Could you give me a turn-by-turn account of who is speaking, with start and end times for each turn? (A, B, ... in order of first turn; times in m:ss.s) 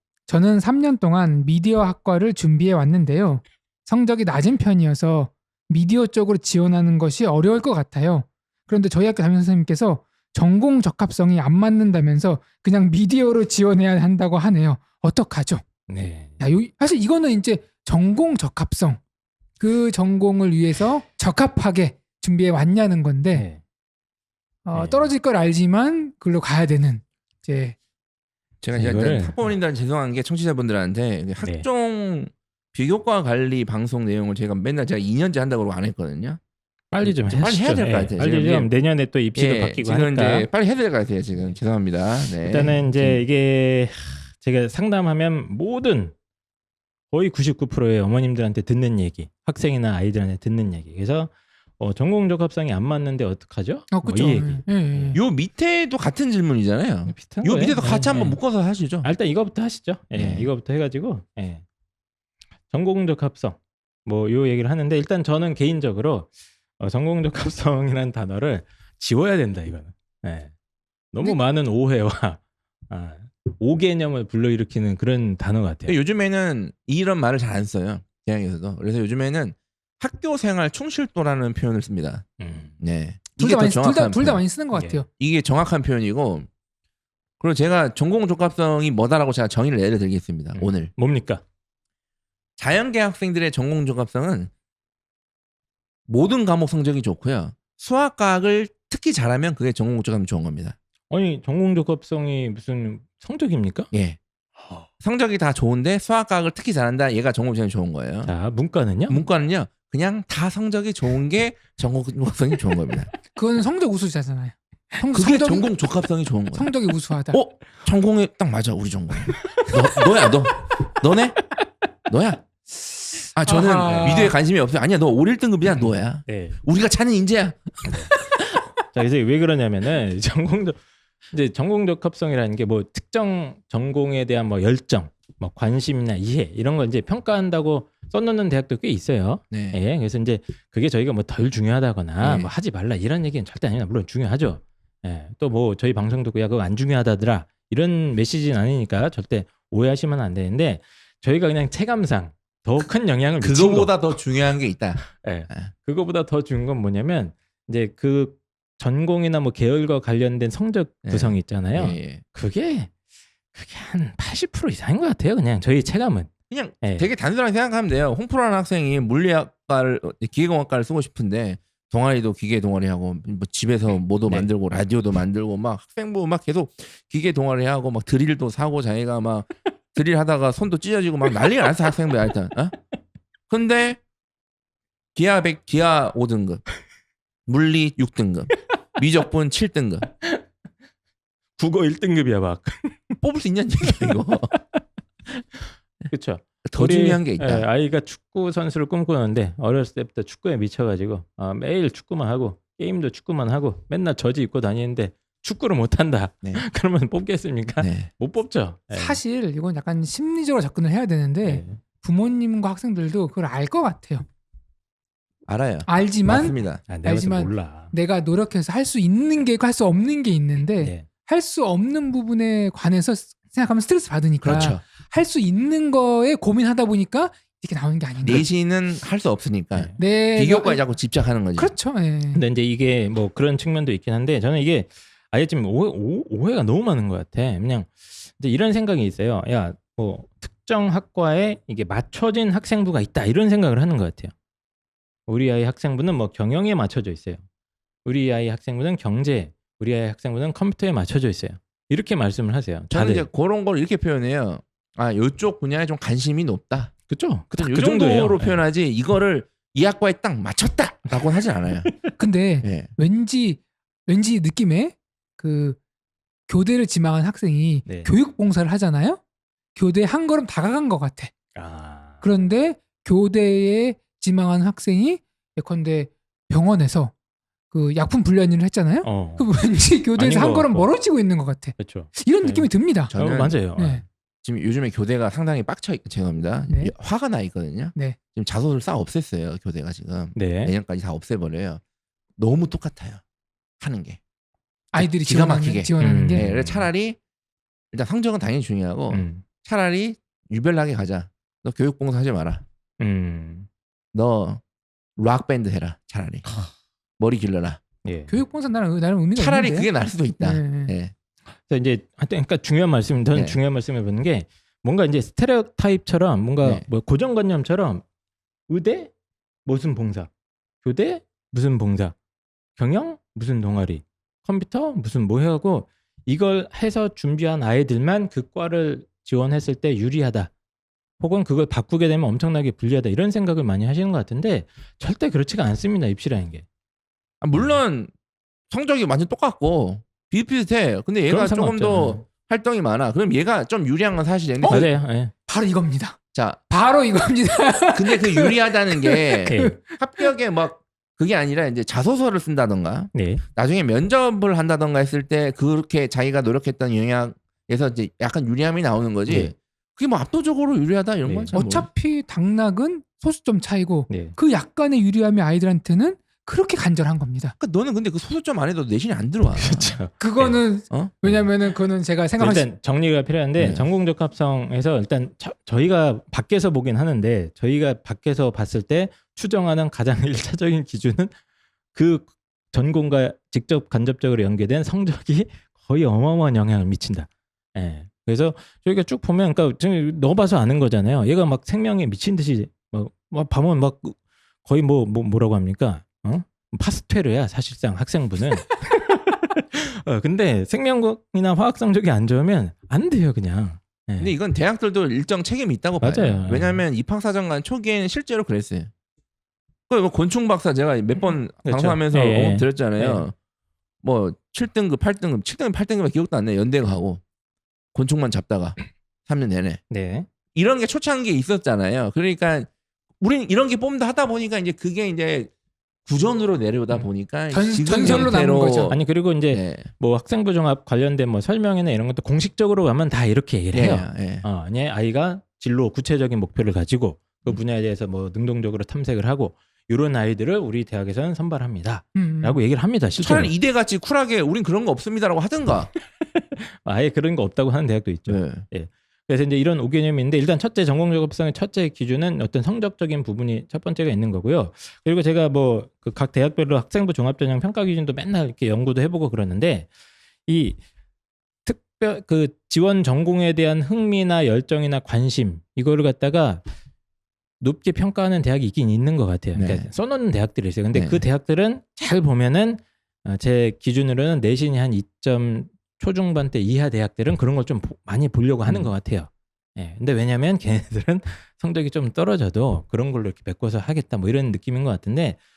0:00.3-0:15.6 A
0:15.9-0:16.4 B
0:16.4-0:19.0 A
0:19.6-0:23.5 A
0:23.3-0:23.6 B
0:24.6-0:27.8 A
0:24.7-0:25.1 B
0:28.6-0:36.4 C
0:28.7-0:29.5 B
0:31.4-0:31.7 B
0:36.9-0:40.5 B
0:37.0-0:38.7 C
0:39.4-0:43.2 C
0:42.3-0:46.2 B
0:47.1-0:55.2 B
0:53.9-0:55.2 A
0:55.1-0:59.1 C
0:57.1-0:58.4 B
0:59.0-1:01.6 B
1:00.1-1:00.5 C
1:02.7-1:10.5 B
1:11.1-1:16.0 B
1:15.9-1:22.3 C
1:22.4-1:22.8 B
1:22.8-1:24.4 C
1:23.4-1:25.1 A
1:24.7-1:25.0 B
1:25.2-1:26.5 C
1:27.4-1:30.9 C
1:30.5-1:31.4 B
1:32.6-1:34.5 C
1:36.1-1:40.8 C
1:41.1-1:43.9 B
1:43.9-1:44.2 C
1:44.6-1:44.9 B
1:45.0-1:48.3 C
1:48.2-1:49.2 B
1:49.1-1:53.1 C
1:53.3-1:55.7 A
1:55.1-1:56.7 C
1:56.5-1:57.4 A
1:57.3-2:01.4 C
2:02.1-2:02.4 C
2:03.3-2:07.9 C
2:03.5-2:04.4 A
2:05.8-2:06.6 B
2:08.9-2:10.8 B
2:11.3-2:34.0 B
2:19.5-2:19.8 C
2:22.2-2:22.5 C
2:33.4-2:35.7 C
2:35.0-2:42.9 B
2:41.0-2:42.2 C
2:43.5-2:46.3 B
2:46.5-3:02.8 C
2:46.8-2:47.1 B
3:03.5-3:04.0 C
3:05.2-3:06.6 C
3:07.5-3:10.1 C
3:11.6-3:13.2 B
3:13.2-3:14.5 C
3:13.9-3:14.6 B
3:16.1-3:29.2 B
3:16.6-3:17.7 C
3:27.8-3:28.1 C
3:28.9-3:34.3 A
3:31.4-3:31.8 B
3:35.5-3:36.9 C
3:35.9-3:48.5 A
3:36.9-3:37.9 B
3:40.8-3:41.1 B
3:44.4-3:44.8 C
3:48.2-3:51.7 C
3:50.0-3:50.8 A
3:51.6-3:52.4 A
3:52.3-4:04.3 B
4:05.3-4:07.4 B
4:08.0-4:13.3 B
4:12.9-4:16.9 C
4:17.1-4:18.6 B
4:17.5-4:21.9 C
4:22.2-4:25.8 A
4:22.6-4:22.9 C
4:26.5-4:29.2 A
4:27.9-4:28.1 B
4:29.8-4:31.3 A
4:31.5-4:32.2 B
4:32.2-4:37.1 A
4:37.7-4:43.2 A
4:39.0-4:39.5 B
4:40.1-4:40.9 B
4:41.8-4:44.0 B
4:43.1-4:43.6 C
4:43.7-4:44.0 A
4:44.4-4:51.8 C
4:46.7-4:46.9 A
4:50.3-4:50.7 B
4:52.4-4:53.2 C
4:53.8-4:54.2 C
4:54.9-4:56.5 A
4:55.0-4:57.2 C
4:56.0-4:56.9 B
4:57.9-5:02.6 C
4:59.1-4:59.4 B
5:03.0-5:03.7 B
5:04.1-5:04.6 C
5:05.2-5:06.5 C
5:07.2-5:07.8 C
5:08.0-5:08.4 B
5:08.3-5:11.0 A
5:09.4-5:11.1 C
5:11.6-5:18.0 B
5:13.3-5:13.6 C
5:18.7-5:19.1 B
5:19.6-5:20.3 B
5:20.8-5:22.2 B
5:22.8-5:30.5 B
5:31.2-5:36.7 B
5:37.4-5:38.1 C
5:38.7-5:44.9 C
5:41.3-5:42.2 B
5:44.6-5:44.9 A
5:44.6-5:45.3 B
5:45.5-5:46.2 A
5:46.3-5:46.6 C
5:46.7-5:50.3 A
5:47.9-6:01.9 C
5:49.5-5:49.8 B
5:53.1-5:53.4 B
5:59.3-5:59.5 B
6:01.2-6:01.6 B
6:01.5-6:07.6 A
6:04.1-6:04.4 B
6:07.6-6:10.0 C
6:09.5-6:10.6 B
6:10.2-6:12.7 A
6:10.9-6:11.2 C
6:12.4-6:21.3 B
6:13.6-6:13.9 C
6:21.9-6:44.3 B
6:44.2-6:48.9 C
6:46.0-6:46.8 B
6:49.9-6:53.4 C
6:51.6-6:53.3 B
6:54.0-6:57.2 C
6:57.9-6:59.8 C
6:59.9-7:00.3 B
7:00.5-7:02.7 C
7:03.2-7:05.5 C
7:06.1-7:09.9 C
7:07.5-7:09.0 A
7:08.0-7:23.5 B
7:13.7-7:14.5 C
7:22.2-7:22.6 A
7:23.2-7:25.9 C
7:26.4-7:39.9 B
7:28.3-7:28.7 C
7:40.5-7:40.8 B
7:41.6-7:46.6 B
7:47.6-8:05.4 B
7:49.5-7:49.9 C
7:50.9-7:51.2 C
7:58.7-7:58.9 C